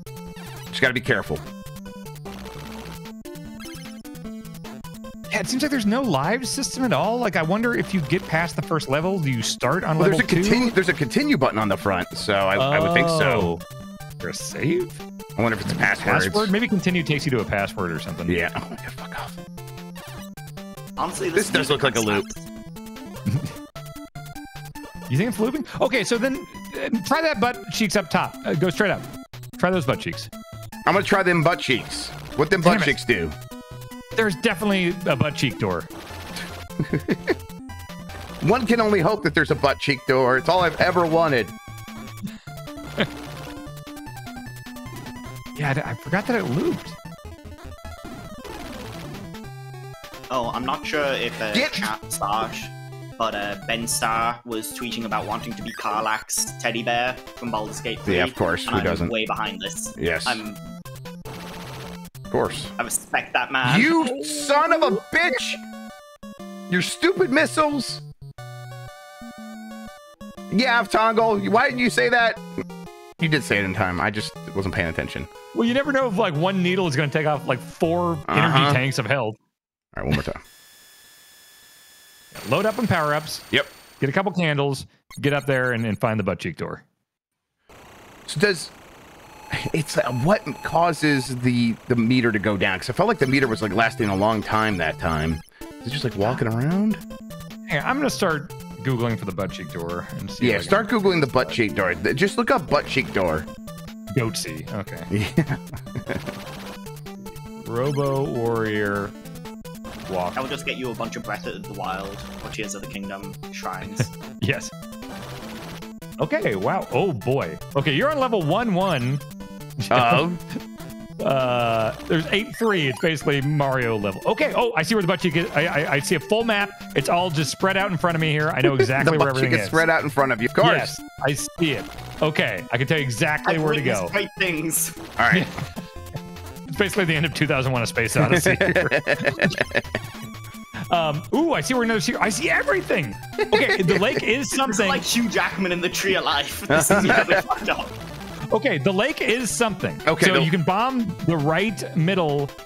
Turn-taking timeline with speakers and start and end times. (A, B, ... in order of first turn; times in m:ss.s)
0:00.7-0:01.4 A
0:05.3-0:10.7 B
0:10.0-0:13.5 A
0:12.6-0:13.6 B
0:14.2-0:15.0 B
0:15.4-0:16.5 A
0:15.6-0:18.4 B
0:18.3-0:19.3 A
0:21.0-0:22.4 C
0:21.4-0:22.2 A
0:25.1-0:29.1 B
0:29.6-0:30.3 B
0:30.8-0:33.3 A
0:32.6-0:32.9 B
0:34.2-0:35.9 B
0:36.8-0:37.4 A
0:38.4-0:41.5 A
0:45.6-0:47.0 B
0:50.3-1:00.6 C
0:51.5-0:51.8 A
0:58.0-0:59.1 A
1:00.0-1:00.4 A
1:02.3-1:02.7 A
1:02.8-1:04.0 C
1:03.6-1:05.6 A
1:03.9-1:05.0 B
1:06.7-1:08.0 A
1:10.5-1:12.4 A
1:13.2-1:15.3 A
1:15.5-1:19.4 B
1:18.3-1:18.8 A
1:19.9-1:20.4 A
1:22.3-1:23.5 B
1:24.0-1:26.8 B
1:28.3-1:28.7 A
1:29.5-1:37.0 A
1:37.7-1:41.6 B
1:40.4-1:43.5 A
1:44.1-1:45.1 B
1:45.1-1:46.3 A
1:47.6-1:49.1 B
1:50.1-1:50.4 B
1:50.3-1:54.1 C
1:53.8-1:54.7 B
1:56.2-1:59.2 B
1:59.8-2:00.6 B
1:59.9-2:00.4 A
2:01.2-2:09.8 B
2:08.6-2:10.9 A
2:10.6-2:14.1 B
2:13.4-2:15.0 C
2:15.2-2:15.5 A
2:15.3-2:15.8 B
2:16.7-2:19.6 B
2:18.2-2:19.9 A
2:20.9-2:25.0 B
2:23.4-2:24.2 A
2:24.5-2:27.9 C
2:26.7-2:27.4 A
2:28.5-2:32.5 B
2:30.0-2:30.5 A